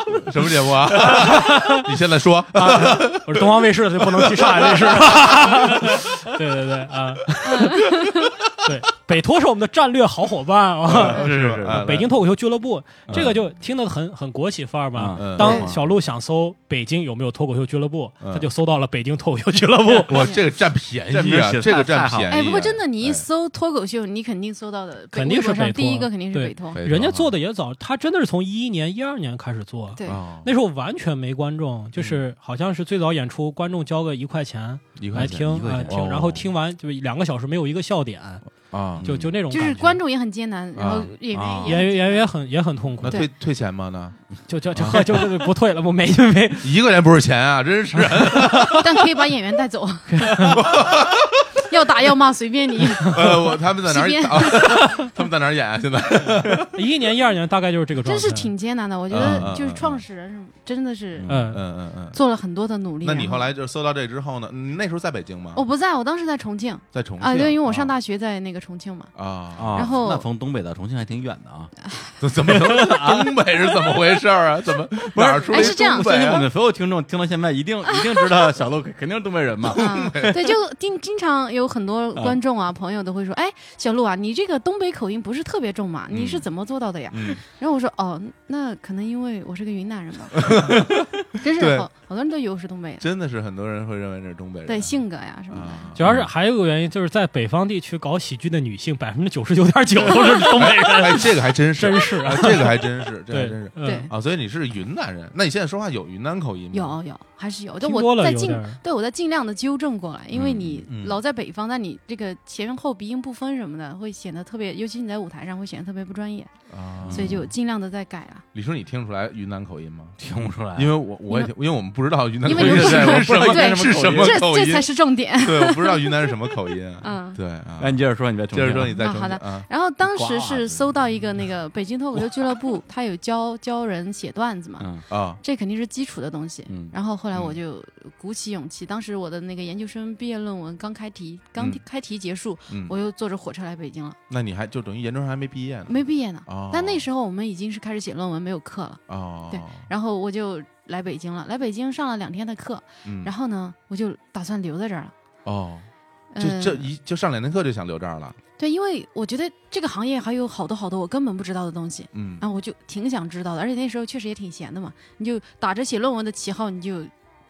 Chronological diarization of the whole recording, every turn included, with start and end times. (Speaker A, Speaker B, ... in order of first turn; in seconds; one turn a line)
Speaker A: 0.1-5.8
Speaker B: 1.1-1.9
Speaker B: 2.5-20.2
Speaker C: 7.5-8.3
Speaker A: 10.8-12.1
Speaker D: 11.0-11.9
Speaker A: 13.1-13.3
Speaker D: 15.0-15.8
Speaker A: 15.2-15.7
Speaker C: 15.4-15.7
Speaker A: 18.2-18.5
Speaker A: 20.0-23.3
Speaker D: 21.1-22.4
Speaker C: 22.3-26.8
Speaker B: 25.1-38.4
Speaker A: 26.7-27.3
Speaker C: 29.9-30.2
Speaker A: 30.0-30.5
Speaker A: 35.0-36.4
Speaker D: 35.1-36.0
Speaker A: 38.7-39.1
Speaker B: 39.0-40.0
Speaker D: 39.0-39.3
Speaker C: 39.5-42.3
Speaker A: 40.8-41.1
Speaker D: 41.3-41.8
Speaker B: 41.6-43.3
Speaker A: 43.0-44.2
Speaker B: 44.5-46.8
Speaker A: 44.7-45.3
Speaker A: 46.6-48.9
Speaker B: 48.2-48.6
Speaker C: 48.6-50.4
Speaker B: 50.3-50.6
Speaker A: 50.4-51.5
Speaker C: 51.7-54.8
Speaker A: 53.0-56.7
Speaker B: 56.7-58.5
Speaker C: 58.0-61.3
Speaker A: 59.1-60.0
Speaker D: 59.2-59.5
Speaker D: 61.1-61.5
Speaker B: 61.3-61.6
Speaker A: 61.5-62.2
Speaker C: 62.1-63.5
Speaker A: 63.0-65.6
Speaker C: 65.5-69.1
Speaker A: 66.9-67.9
Speaker A: 69.2-70.0
Speaker D: 69.6-71.7
Speaker C: 69.7-70.3
Speaker A: 72.2-76.5
Speaker D: 72.4-74.0
Speaker D: 75.1-80.2
Speaker C: 75.5-76.4
Speaker C: 78.0-78.4
Speaker A: 79.7-80.5
Speaker C: 79.7-93.0
Speaker A: 86.1-86.5
Speaker A: 87.1-87.4
Speaker A: 90.4-91.9
Speaker A: 93.0-95.0
Speaker C: 94.7-95.9
Speaker A: 95.5-96.2
Speaker B: 96.0-104.1
Speaker A: 100.5-107.0
Speaker C: 103.8-104.1
Speaker C: 106.7-116.5
Speaker B: 107.8-108.8
Speaker D: 110.3-110.8
Speaker A: 110.9-111.2
Speaker A: 116.7-117.5
Speaker D: 117.0-117.5
Speaker C: 117.1-118.5
Speaker A: 118.5-120.2
Speaker D: 120.2-121.0
Speaker A: 120.7-129.7
Speaker C: 122.4-127.4
Speaker D: 122.5-124.5
Speaker D: 127.8-129.0
Speaker C: 129.0-134.9
Speaker D: 130.0-130.9
Speaker A: 135.1-135.4
Speaker C: 135.4-144.2
Speaker D: 136.7-136.9
Speaker A: 137.3-137.6
Speaker A: 141.6-141.8
Speaker A: 142.7-142.9
Speaker A: 144.3-147.1
Speaker C: 145.9-155.1
Speaker A: 149.1-149.9
Speaker A: 153.1-153.3
Speaker A: 155.4-158.4
Speaker C: 156.3-156.9
Speaker C: 158.6-167.1
Speaker A: 162.1-162.4